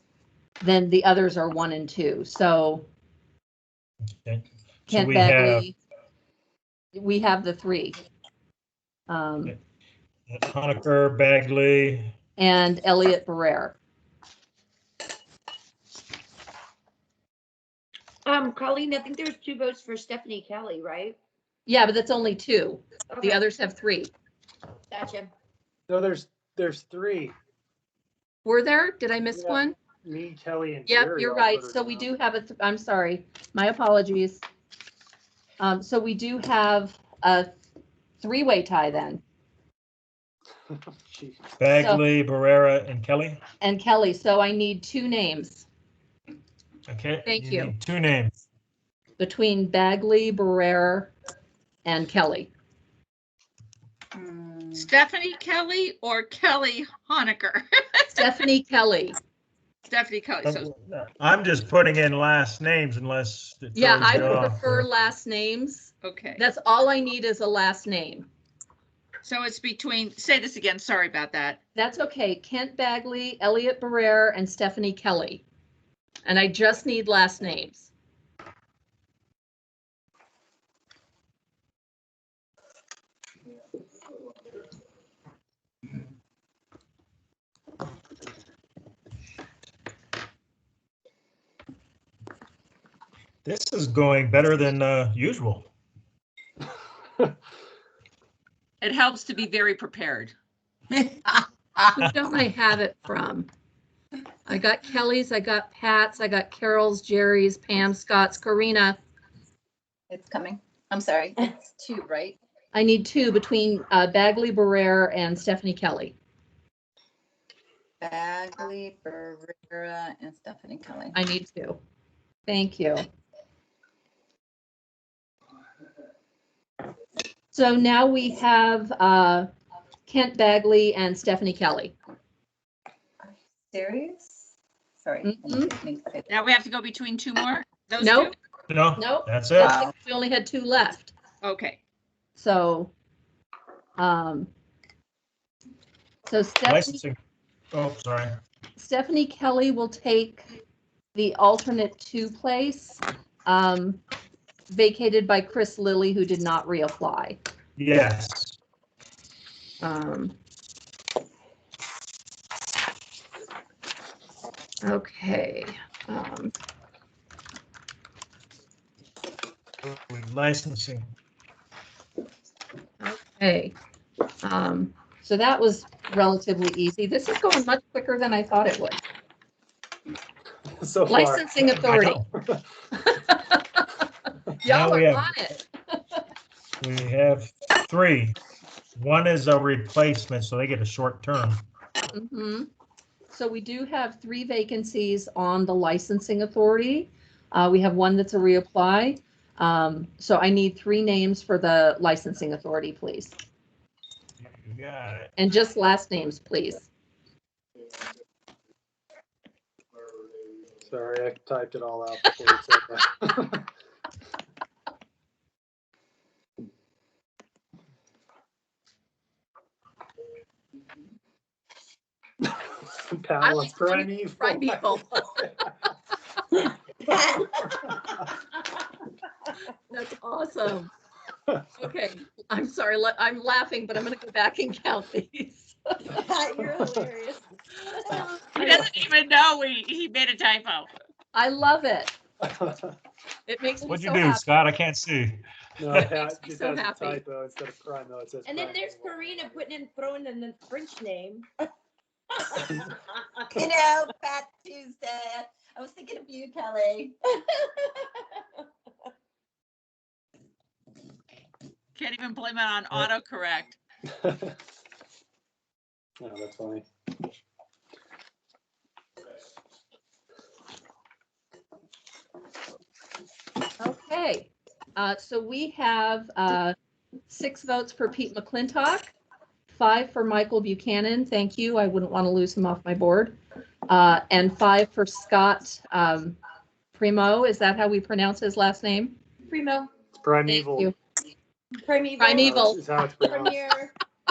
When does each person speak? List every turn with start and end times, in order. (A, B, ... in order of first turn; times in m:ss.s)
0:00.6-0:02.9 A
0:04.2-0:05.6 B
0:04.9-0:05.8 A
0:06.9-0:08.0 A
0:09.1-0:09.5 A
0:10.3-0:12.1 B
0:12.4-0:13.8 A
0:18.2-0:21.2 C
0:21.6-0:24.1 A
0:23.1-0:23.4 C
0:24.9-0:25.3 C
0:25.9-0:27.4 D
0:28.4-0:29.8 A
0:29.3-0:32.1 D
0:30.9-0:34.4 A
0:35.6-0:37.5 A
0:38.2-0:39.2 A
0:40.7-0:41.4 D
0:41.6-0:43.4 B
0:41.8-0:42.0 A
0:43.6-0:45.6 A
0:46.9-0:48.4 B
0:47.2-0:47.7 A
0:49.2-0:51.1 A
0:51.8-0:52.5 A
0:54.1-0:54.9 E
0:54.7-0:58.3 F
0:58.2-0:59.2 A
0:59.8-1:00.7 F
1:00.4-1:04.9 B
1:03.7-1:08.3 A
1:06.0-1:06.4 F
1:09.2-1:11.6 F
1:11.7-1:15.4 A
1:16.2-1:17.9 A
1:33.4-1:35.7 B
1:38.8-1:40.3 F
1:41.9-1:43.5 A
1:44.4-1:49.0 A
1:50.1-1:52.4 E
1:52.7-1:56.2 A
1:58.0-2:01.2 E
2:01.1-2:01.8 A
2:02.5-2:03.0 A
2:07.5-2:09.5 A
2:10.1-2:12.0 A
2:13.2-2:16.4 E
2:15.2-2:15.7 A
2:16.3-2:18.3 F
2:18.0-2:18.3 A
2:18.7-2:19.8 B
2:19.0-2:21.1 A
2:19.6-2:19.9 E
2:21.4-2:21.8 F
2:22.4-2:22.9 A
2:24.0-2:24.5 A
2:26.2-2:27.0 A
2:26.6-2:27.2 B
2:27.7-2:28.4 B
2:28.8-2:30.5 A
2:31.1-2:34.0 A
2:34.7-2:37.4 A
2:37.8-2:38.6 B
2:39.8-2:40.4 A
2:44.8-2:46.5 A
2:49.8-2:51.1 B
2:53.0-2:53.7 A
2:54.4-2:59.0 A
3:00.7-3:02.6 D
3:01.1-3:02.2 A
3:01.9-3:02.2 B
3:03.0-3:03.8 A
3:04.6-3:06.2 A
3:04.6-3:05.3 B
3:06.8-3:08.4 B
3:09.0-3:11.6 B
3:12.1-3:12.7 A
3:13.3-3:23.4 A
3:24.4-3:25.3 B
3:25.4-3:26.9 A
3:30.8-3:33.7 D
3:42.8-3:45.5 D
3:43.4-3:45.5 A
3:47.1-3:47.9 C
3:49.9-3:50.9 A
3:51.8-3:56.1 A
3:56.1-3:57.4 C
3:58.0-3:58.9 A
3:58.5-4:00.9 F
4:01.3-4:02.1 A
4:02.4-4:02.9 D
4:03.5-4:04.4 A
4:03.9-4:06.1 B
4:05.8-4:09.6 D
4:06.2-4:07.2 A
4:08.4-4:11.4 C
4:12.3-4:12.6 C
4:13.5-4:17.2 E
4:22.0-4:23.7 F
4:24.1-4:24.6 D
4:26.2-4:26.8 D
4:33.8-4:36.7 A
4:37.3-4:39.1 A
4:39.7-4:43.4 A
4:43.9-4:46.4 A
4:46.9-4:49.2 A
4:49.5-4:49.9 C
4:50.2-4:50.9 D
4:50.5-4:50.9 A
4:51.8-4:53.9 C
4:52.2-4:52.8 A
4:52.3-4:53.6 D